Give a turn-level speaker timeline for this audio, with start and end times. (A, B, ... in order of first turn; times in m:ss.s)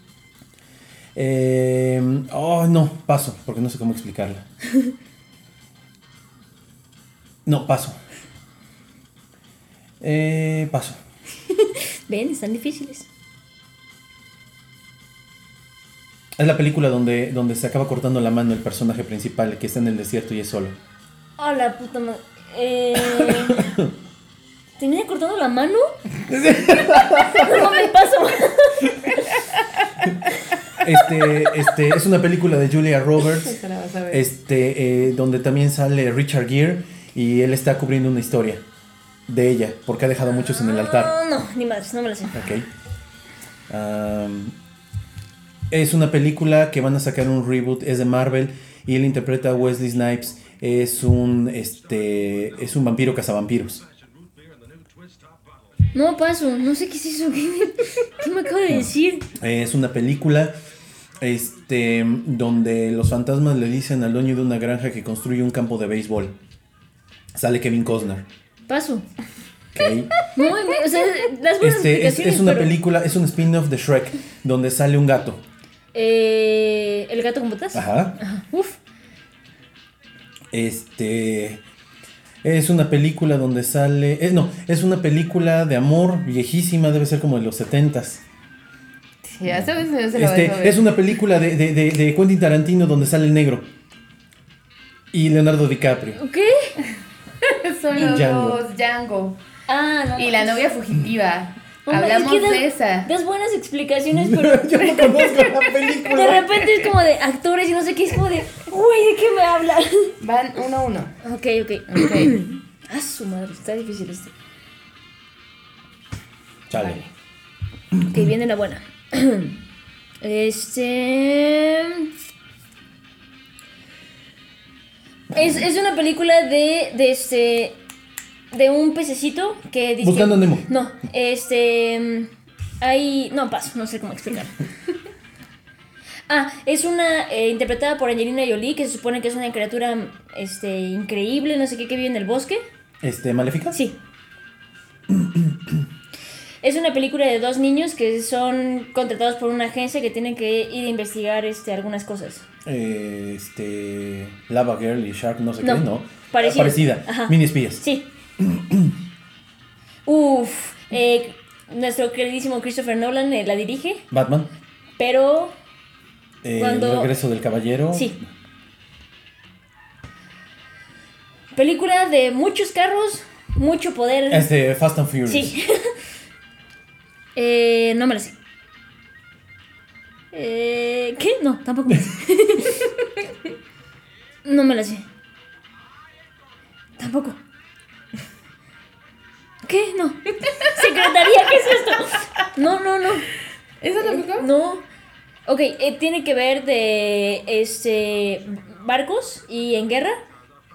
0:01.1-0:04.4 A
0:04.7-0:04.9 B
0:07.4-0:08.0 A
0:10.0-0:11.0 A
0:11.5-0:13.1 B
0:16.4-0:20.8 A
0:21.4-0:23.7 B
0:23.0-0:23.9 A
0:24.8-0:25.9 B
0:26.3-0:27.8 A
0:27.3-0:29.4 B
0:30.3-0:30.6 B
0:30.8-0:33.6 A
0:33.2-0:34.2 C
0:34.1-0:38.6 A
0:39.3-0:41.1 A
0:40.5-0:42.4 B
0:42.3-0:42.6 A
0:43.7-0:44.5 A
0:45.7-0:53.8 A
0:55.9-0:59.3 B
0:58.7-1:00.5 A
1:01.2-1:06.3 A
1:07.3-1:08.2 A
1:08.7-1:09.0 B
1:09.7-1:10.1 A
1:10.3-1:12.8 B
1:11.6-1:15.4 A
1:15.9-1:18.8 B
1:17.7-1:18.2 A
1:20.5-1:21.6 A
1:22.4-1:28.2 A
1:29.2-1:30.9 C
1:29.5-1:33.7 A
1:35.1-1:36.2 A
1:36.2-1:36.8 B
1:37.4-1:39.4 C
1:38.0-1:38.6 A
1:39.7-1:40.6 B
1:40.2-1:43.1 C
1:41.9-1:45.2 B
1:44.1-1:46.7 A
1:45.0-1:45.9 C
1:46.0-1:50.2 B
1:50.2-1:51.2 C
1:51.2-1:54.3 B
1:51.9-1:52.4 C
1:56.7-1:57.0 A
1:56.7-1:57.1 C
1:58.1-1:59.6 B
2:00.2-2:02.1 B
2:05.3-2:07.8 B
2:05.3-2:05.6 A
2:08.5-2:14.5 B
2:10.0-2:10.6 A
2:16.3-2:22.6 B
2:23.0-2:23.8 A
2:25.1-2:25.8 A
2:26.6-2:32.4 B
2:32.6-2:37.8 A
2:35.6-2:38.1 B
2:38.4-2:38.9 A
2:40.0-2:44.1 B
2:44.1-2:44.5 A
2:45.0-2:45.5 B
2:46.4-2:48.3 A
2:46.6-2:47.1 B
2:51.5-2:54.5 B
2:54.3-2:55.5 A
2:55.3-2:55.9 B
2:57.3-2:58.3 B
3:00.3-3:03.0 B
3:04.4-3:05.0 B
3:07.0-3:07.4 B
3:09.6-3:13.3 B
3:13.8-3:14.5 C
3:14.0-3:14.8 B
3:15.4-3:20.2 B